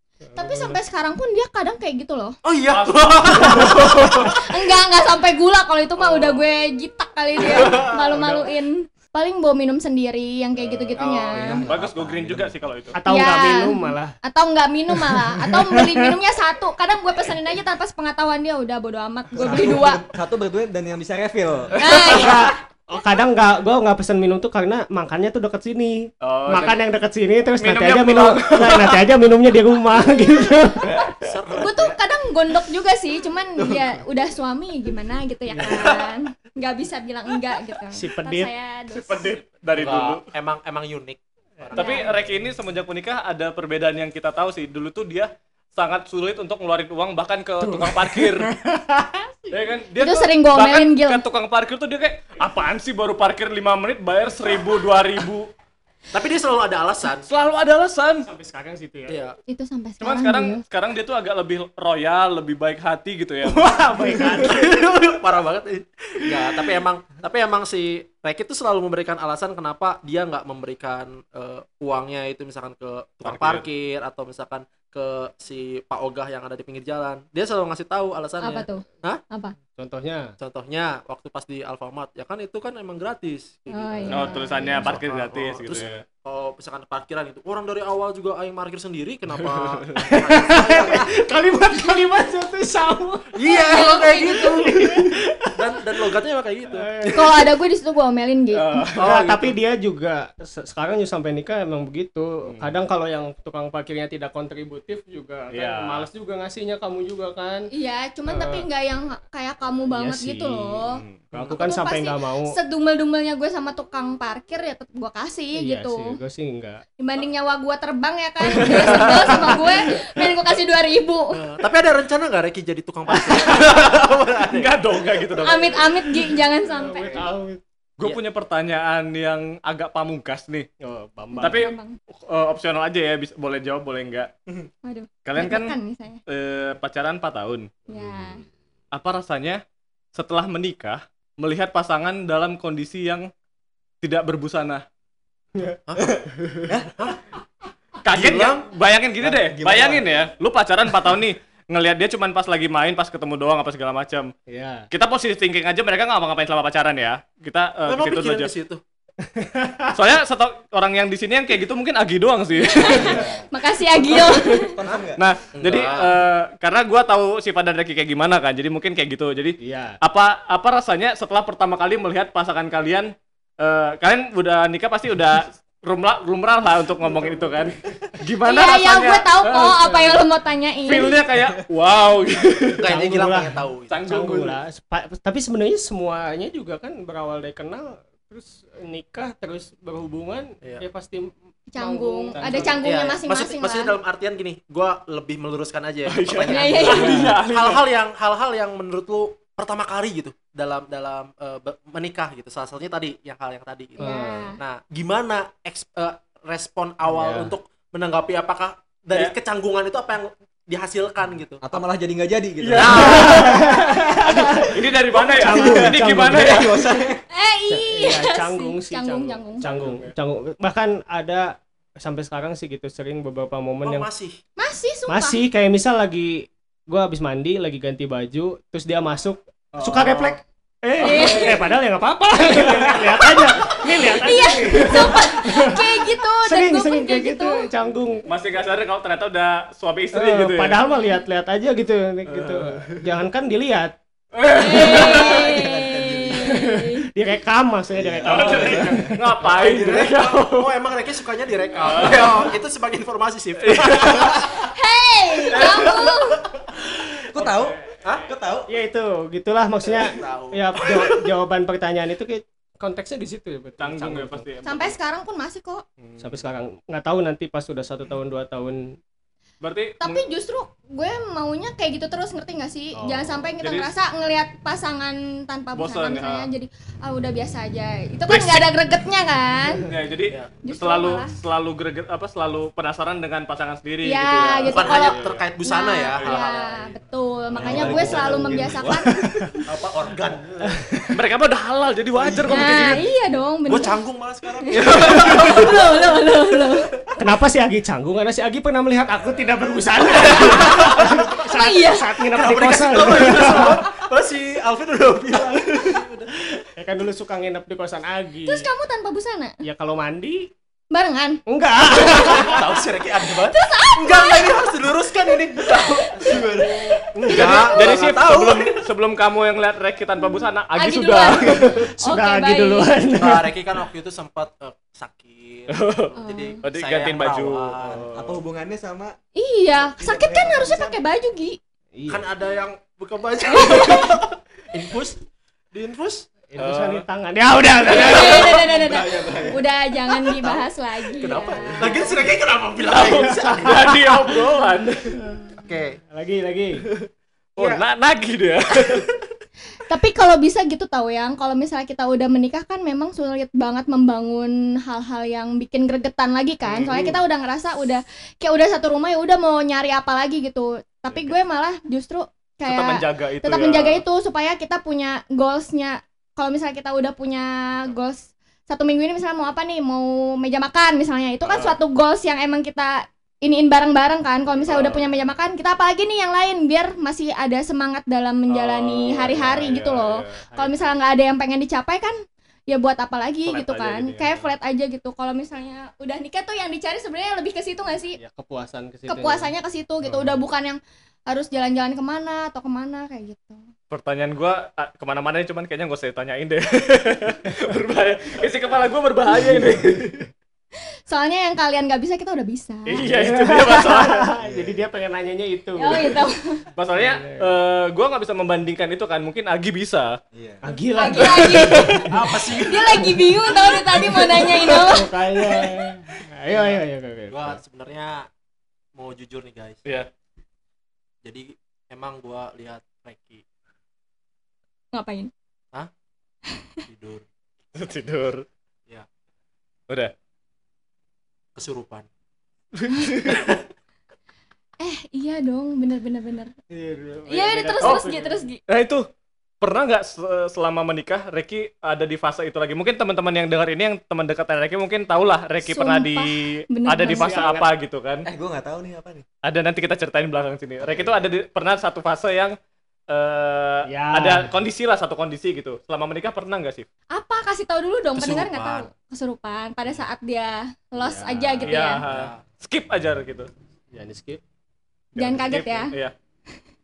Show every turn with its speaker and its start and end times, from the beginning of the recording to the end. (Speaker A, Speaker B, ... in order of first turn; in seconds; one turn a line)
Speaker A: 0.3-0.8
Speaker B: 0.4-2.4
Speaker C: 2.4-4.3
Speaker D: 2.7-4.3
Speaker B: 3.6-11.6
Speaker D: 6.1-6.3
Speaker A: 7.6-8.5
Speaker D: 10.6-11.0
Speaker C: 11.0-11.6
Speaker E: 11.3-12.6
Speaker D: 11.7-13.0
Speaker A: 12.9-14.2
Speaker B: 13.1-20.0
Speaker A: 14.9-16.2
Speaker E: 19.4-22.0
Speaker B: 21.8-22.6
Speaker A: 21.9-31.1
Speaker D: 26.2-26.8
Speaker D: 27.6-29.0
Speaker C: 31.2-32.0
Speaker B: 31.6-39.4
Speaker A: 37.9-38.5
Speaker D: 38.9-40.2
Speaker C: 39.8-42.2
Speaker B: 41.8-42.1
Speaker D: 41.8-48.5
Speaker A: 47.6-49.6
Speaker D: 49.5-55.5
Speaker B: 50.0-51.2
Speaker C: 56.1-57.3
Speaker D: 57.2-58.3
Speaker A: 58.2-59.2
Speaker C: 59.1-59.4
Speaker B: 59.5-60.6
Speaker D: 60.0-63.6
Speaker A: 63.4-64.7
Speaker C: 64.1-79.2
Speaker D: 73.2-73.7
Speaker B: 78.4-79.5
Speaker A: 79.8-80.3
Speaker C: 80.4-91.1
Speaker B: 83.7-84.8
Speaker A: 83.7-85.0
Speaker D: 84.1-86.0
Speaker A: 90.0-93.3
Speaker C: 93.4-96.9
Speaker B: 93.6-94.6
Speaker A: 94.3-95.5
Speaker A: 96.7-97.5
Speaker B: 97.1-98.9
Speaker D: 98.5-99.1
Speaker C: 99.0-99.5
Speaker A: 99.0-107.7
Speaker D: 102.5-102.7
Speaker D: 105.5-106.1
Speaker B: 107.7-116.1
Speaker A: 108.3-108.7
Speaker A: 109.9-112.5
Speaker D: 110.9-111.3
Speaker A: 115.6-116.8
Speaker B: 117.0-121.4
Speaker D: 118.6-119.5
Speaker A: 118.6-119.7
Speaker C: 121.3-124.9
Speaker D: 124.5-126.2
Speaker B: 125.4-127.2
Speaker A: 126.7-127.6
Speaker D: 128.0-130.7
Speaker A: 130.8-131.7
Speaker B: 131.3-132.0
Speaker D: 131.4-131.7
Speaker D: 132.3-134.3
Speaker B: 134.8-136.2
Speaker D: 135.2-135.8
Speaker D: 136.3-137.7
Speaker B: 137.9-138.4
Speaker E: 137.9-138.3
Speaker D: 138.9-139.6
Speaker D: 140.2-143.3
Speaker D: 144.0-144.8
Speaker C: 145.9-146.2
Speaker E: 146.0-147.0
Speaker A: 146.4-146.6
Speaker D: 148.0-154.3
Speaker C: 148.1-148.7
Speaker E: 149.2-150.1
Speaker A: 154.5-154.9
Speaker D: 154.9-158.5
Speaker C: 157.9-158.8
Speaker A: 159.2-160.0
Speaker D: 159.9-163.2
Speaker B: 162.6-164.7
Speaker E: 162.8-163.4
Speaker D: 164.1-164.7
Speaker E: 164.7-165.2
Speaker D: 165.2-179.8
Speaker C: 165.6-166.2
Speaker A: 169.6-170.0
Speaker B: 178.4-181.2
Speaker A: 179.8-180.2
Speaker D: 180.9-182.9
Speaker C: 182.8-184.0
Speaker A: 182.9-183.5
Speaker D: 183.9-184.6
Speaker A: 184.1-192.8
Speaker B: 191.7-193.9
Speaker D: 192.3-192.9
Speaker C: 192.8-204.0
Speaker D: 196.1-197.9
Speaker B: 196.5-197.3
Speaker A: 196.9-197.3
Speaker A: 204.0-204.5
Speaker B: 204.0-204.6
Speaker C: 204.6-211.8
Speaker A: 207.1-207.5
Speaker E: 211.6-213.6
Speaker D: 212.6-216.9
Speaker A: 212.8-216.5
Speaker C: 212.8-213.5
Speaker E: 215.4-217.2
Speaker B: 217.3-219.7
Speaker A: 217.7-224.1
Speaker D: 219.6-220.1
Speaker C: 223.8-224.4
Speaker B: 224.6-225.4
Speaker A: 225.1-238.2
Speaker D: 229.7-230.4
Speaker D: 231.0-231.6
Speaker B: 231.0-231.7
Speaker D: 232.5-233.9
Speaker B: 234.0-237.7
Speaker D: 234.7-235.2
Speaker D: 238.3-240.8
Speaker A: 240.1-244.0
Speaker D: 242.3-243.0
Speaker D: 244.3-245.5
Speaker B: 244.5-247.1
Speaker E: 244.9-246.7
Speaker A: 246.6-249.2
Speaker E: 247.9-250.1
Speaker C: 248.2-248.8
Speaker D: 248.3-250.7
Speaker C: 249.8-254.5
Speaker D: 251.8-252.5
Speaker D: 253.6-254.5
Speaker B: 254.7-256.4
Speaker D: 255.5-256.1
Speaker E: 257.3-258.7
Speaker D: 257.4-258.2
Speaker C: 258.0-258.3
Speaker A: 258.7-264.5
Speaker C: 259.9-261.3
Speaker D: 263.8-265.0
Speaker B: 264.7-265.8
Speaker D: 266.0-266.4
Speaker A: 266.2-269.0
Speaker D: 269.6-270.2
Speaker B: 270.0-279.9
Speaker A: 273.0-273.4
Speaker D: 273.6-273.9
Speaker D: 275.8-276.5
Speaker D: 278.3-278.7
Speaker D: 279.8-285.4
Speaker C: 280.3-280.5
Speaker B: 280.6-281.3
Speaker B: 284.1-289.1
Speaker C: 284.7-286.9
Speaker D: 286.2-286.5
Speaker E: 287.6-289.1
Speaker A: 287.6-289.7
Speaker D: 287.6-288.1
Speaker C: 289.7-290.9
Speaker A: 290.7-291.2
Speaker D: 291.1-293.0
Speaker C: 292.1-293.0
Speaker B: 292.5-294.0
Speaker C: 293.7-295.9
Speaker B: 294.7-296.9
Speaker D: 294.7-295.9
Speaker A: 297.2-303.9
Speaker C: 300.3-301.4
Speaker B: 301.4-302.1
Speaker C: 302.3-306.6
Speaker A: 306.7-308.7
Speaker B: 308.4-309.6
Speaker A: 309.6-310.5
Speaker B: 310.9-311.4
Speaker A: 311.5-312.8
Speaker C: 312.0-318.9
Speaker B: 313.4-314.7
Speaker E: 316.2-316.8
Speaker A: 317.3-317.7
Speaker D: 317.3-321.9
Speaker B: 317.5-318.1
Speaker B: 320.8-323.0
Speaker A: 321.4-323.5
Speaker C: 323.1-328.1
Speaker D: 325.7-328.4
Speaker B: 326.2-326.6
Speaker E: 328.0-329.1
Speaker B: 329.4-331.6
Speaker E: 329.8-331.0
Speaker A: 331.9-332.2
Speaker C: 332.1-335.2
Speaker B: 333.5-334.2
Speaker C: 335.7-336.3
Speaker A: 336.5-338.9
Speaker D: 336.6-337.0
Speaker B: 337.9-342.2
Speaker D: 337.9-338.6
Speaker C: 341.2-343.9
Speaker A: 341.3-342.0
Speaker D: 342.9-345.2
Speaker A: 343.7-344.4
Speaker A: 345.2-346.8
Speaker C: 345.6-346.0
Speaker D: 347.6-349.2
Speaker C: 347.6-347.8
Speaker B: 349.9-382.2
Speaker D: 356.7-357.1
Speaker D: 362.6-364.0
Speaker D: 371.4-371.8
Speaker D: 374.6-375.1
Speaker D: 378.5-380.7
Speaker B: 382.7-388.2
Speaker D: 383.5-384.5
Speaker A: 388.2-389.5
Speaker B: 389.1-393.6
Speaker A: 390.1-390.4
Speaker D: 393.9-400.3
Speaker B: 401.1-403.0
Speaker D: 402.9-404.3
Speaker A: 403.1-406.2
Speaker E: 404.4-404.8
Speaker B: 405.8-406.6
Speaker D: 406.8-410.1
Speaker A: 407.0-407.5
Speaker E: 410.3-410.6
Speaker A: 410.6-412.2
Speaker B: 411.0-415.1
Speaker D: 411.4-412.1
Speaker C: 412.1-414.8
Speaker A: 414.7-417.6
Speaker C: 416.5-418.3
Speaker C: 419.0-419.8
Speaker C: 421.2-423.4
Speaker B: 424.9-425.3
Speaker C: 426.9-427.2
Speaker D: 427.8-428.5
Speaker C: 431.6-432.1
Speaker D: 432.8-433.5
Speaker C: 433.3-433.6
Speaker B: 434.8-436.5
Speaker A: 436.7-438.5
Speaker B: 437.3-438.6
Speaker D: 437.8-439.1
Speaker D: 439.6-446.4
Speaker B: 445.6-447.4
Speaker D: 446.9-448.3
Speaker A: 447.1-447.7
Speaker E: 448.2-449.2
Speaker D: 449.4-452.6
Speaker E: 450.9-451.1
Speaker D: 453.1-456.9
Speaker A: 453.9-454.5
Speaker B: 457.1-462.1
Speaker C: 458.2-458.9
Speaker A: 461.0-461.7
Speaker D: 461.6-463.5
Speaker C: 462.1-462.4
Speaker A: 463.9-464.4
Speaker D: 465.2-466.1
Speaker B: 465.2-465.9